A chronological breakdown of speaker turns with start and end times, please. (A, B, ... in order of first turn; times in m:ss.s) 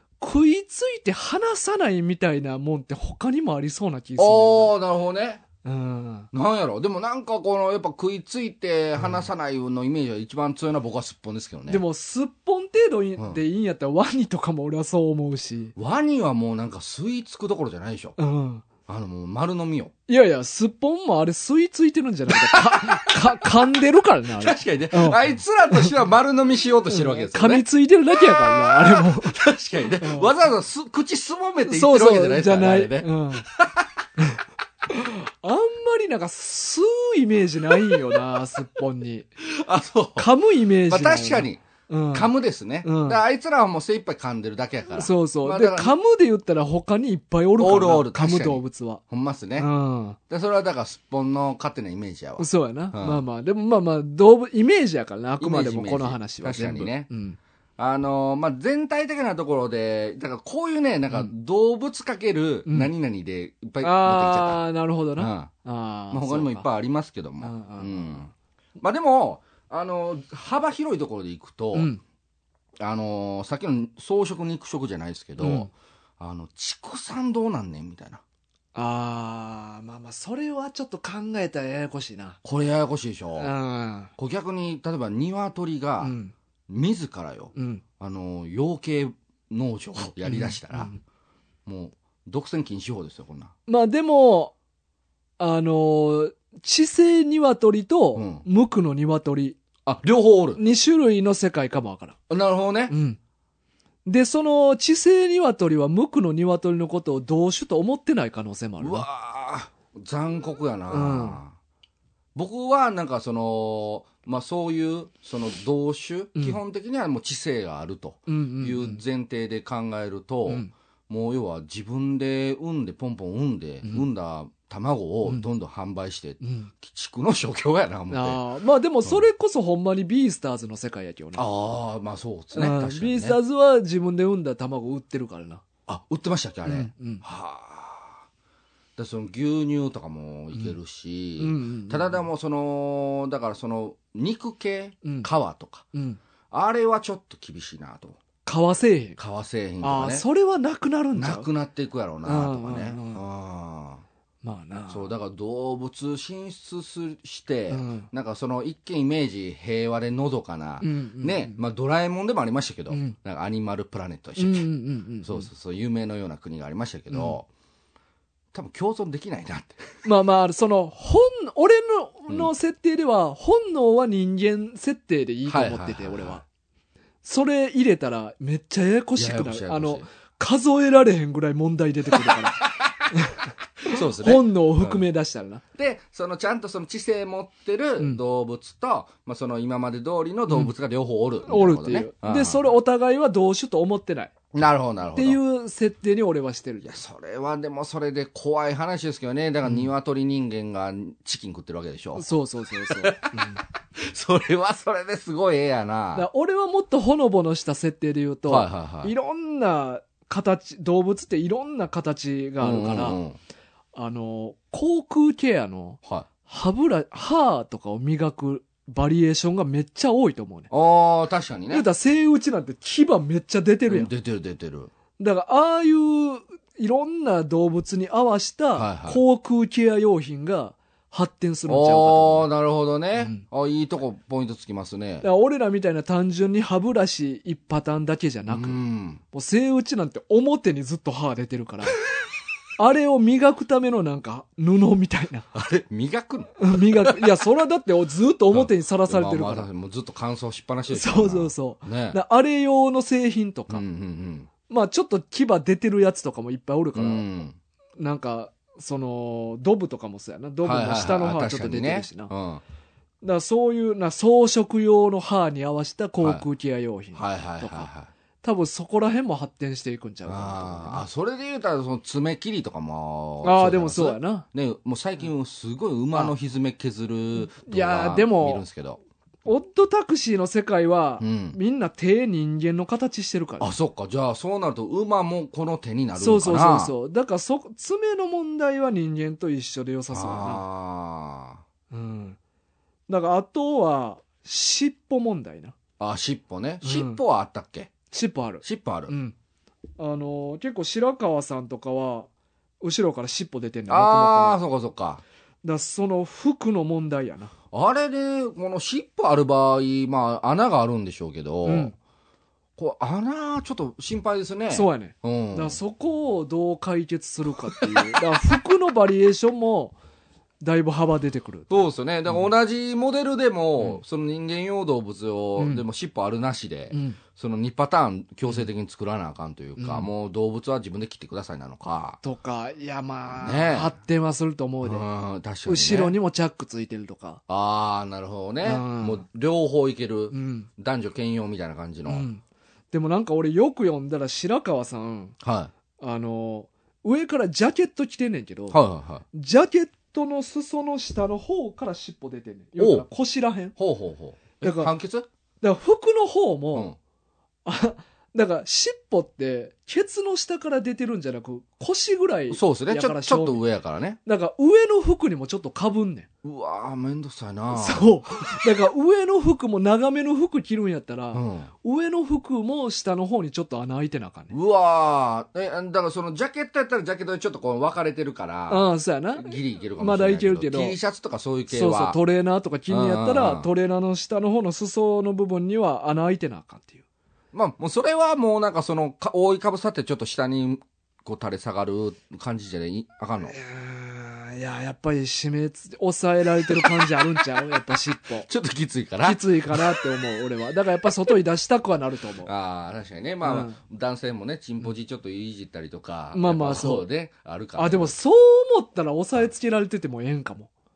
0:00.2-0:04.7 A
0:04.2-0:05.4 B
0:05.6-0:06.3 A
0:06.3-0:11.8 B
0:11.7-0:15.7 A
0:15.8-0:18.2 B
0:18.2-0:18.6 A
0:18.9-0:19.9 B
0:20.1-0:25.9 A
0:22.3-0:23.2 B
0:24.4-0:27.6 B
0:26.9-0:29.4 A
0:28.2-0:33.9 B
0:30.0-0:30.3 A
0:31.6-0:33.5 A
0:34.2-0:39.3 A
0:39.4-0:40.3 B
0:40.2-0:42.3 A
0:40.9-0:46.0 B
0:42.8-0:43.2 A
0:45.0-0:49.0 A
0:47.6-0:49.7 B
0:49.6-0:50.2 A
0:50.3-0:53.2 B
0:52.4-0:57.4 A
0:55.4-0:57.1 B
0:57.8-1:04.6 B
1:03.8-1:06.7 A
1:05.2-1:05.5 B
1:06.1-1:11.9 B
1:07.4-1:08.3 A
1:11.7-1:12.0 A
1:12.8-1:18.2 B
1:15.4-1:15.7 A
1:18.8-1:22.4 A
1:22.4-1:23.5 B
1:23.4-1:24.1 A
1:24.2-1:26.2 B
1:26.0-1:26.3 A
1:26.7-1:30.9 B
1:27.6-1:27.8 A
1:30.2-1:31.0 A
1:31.7-1:33.5 B
1:33.7-1:34.5 A
1:35.4-1:39.6 A
1:38.2-1:38.4 B
1:39.9-1:40.6 B
1:40.6-1:42.2 A
1:42.3-1:43.0 B
1:42.9-1:43.2 A
1:44.1-1:49.1 A
1:48.8-1:51.5 B
1:50.9-1:51.4 A
1:52.4-2:08.4 B
1:58.3-1:59.0 A
2:06.4-2:06.7 A
2:08.1-2:11.5 A
2:11.4-2:13.4 B
2:12.5-2:15.6 A
2:15.9-2:18.2 B
2:16.7-2:17.2 A
2:19.0-2:25.9 B
2:21.4-2:22.2 A
2:25.0-2:25.3 A
2:25.9-2:26.2 A
2:26.5-2:28.2 B
2:28.4-2:29.2 A
2:29.2-2:30.2 B
2:29.8-2:31.5 A
2:31.2-2:34.0 B
2:32.2-2:33.2 A
2:34.4-2:35.1 A
2:34.9-2:44.7 B
2:37.7-2:38.1 A
2:40.8-2:41.6 A
2:42.9-2:43.2 A
2:44.4-2:45.5 A
2:45.2-2:47.5 B
2:47.1-2:47.4 A
2:48.5-2:50.0 B
2:50.0-2:56.4 A
2:55.5-2:56.4 B
2:57.2-3:05.6 A
2:59.2-3:00.1 B
3:02.1-3:03.1 B
3:03.8-3:05.0 B
3:05.8-3:12.7 B
3:11.5-3:14.3 A
3:14.5-3:15.4 B
3:15.2-3:17.0 A
3:16.8-3:22.3 B
3:22.2-3:23.6 A
3:22.8-3:23.4 B
3:24.0-3:26.3 B
3:26.2-3:33.2 A
3:28.5-3:29.1 B
3:32.6-3:33.4 B
3:34.0-3:40.7 A
3:40.7-3:41.9 B
3:41.7-3:44.1 A
3:43.9-3:44.9 B
3:45.2-3:52.5 A
3:48.8-3:49.2 B
3:51.7-3:55.3 B
3:53.2-3:53.4 A
3:55.2-3:58.8 A
3:58.5-3:59.2 B
3:59.3-4:02.0 A
4:02.8-4:05.5 A
4:05.5-4:07.3 B
4:06.6-4:09.7 A
4:08.5-4:12.2 B
4:10.9-4:13.8 A
4:13.7-4:14.5 B
4:14.7-4:17.2 A
4:17.0-4:17.6 B
4:18.0-4:22.3 A
4:20.6-4:22.6 B
4:23.2-4:27.9 A
4:27.2-4:28.1 B
4:28.4-4:31.1 A
4:30.3-4:39.0 B
4:33.4-4:34.5 A
4:37.6-4:38.6 A
4:39.4-4:43.7 A
4:41.2-4:41.6 B
4:43.6-4:46.9 B
4:46.2-4:50.6 A
4:50.1-4:51.6 B
4:51.9-4:52.4 A
4:53.1-4:55.8 A
4:56.0-4:57.9 B
4:56.8-4:57.2 A
4:58.1-4:59.4 A
4:58.6-4:59.1 B
5:00.0-5:02.3 A
5:02.8-5:04.6 A
5:03.9-5:05.2 B
5:05.6-5:07.5 A
5:07.7-5:11.9 B
5:11.6-5:12.0 A
5:12.8-5:15.8 B
5:14.7-5:20.0 A
5:17.7-5:18.1 B
5:20.6-5:21.7 A
5:21.7-5:32.2 B
5:25.6-5:25.8 A
5:26.9-5:27.2 A
5:29.8-5:30.1 A
5:32.2-5:35.0 A
5:33.3-5:33.9 B
5:34.8-5:36.2 B
5:35.7-5:37.4 A
5:37.5-5:42.3 B
5:38.6-5:39.2 A
5:40.3-5:40.7 A
5:42.1-5:45.4 A
5:45.4-5:45.7 B
5:46.0-5:48.8 A
5:48.7-5:49.2 B
5:49.3-5:53.8 A
5:52.8-5:53.0 B
5:53.8-5:55.3 B
5:54.6-5:54.9 A
5:55.6-5:56.9 A
5:57.7-6:03.6 A
6:02.5-6:04.2 B
6:04.2-6:06.3 A
6:06.4-6:08.6 B
6:07.7-6:14.5 A
6:11.3-6:11.7 B
6:14.5-6:18.9 B
6:18.7-6:21.0 A
6:19.4-6:22.2 B
6:21.7-6:27.0 A
6:22.9-6:23.7 B
6:27.5-6:33.6 B
6:33.4-6:38.5 A
6:38.5-6:40.0 B
6:39.2-6:42.5 A
6:42.4-6:48.1 B
6:43.4-6:43.8 A
6:46.3-6:47.1 A
6:47.8-6:50.7 A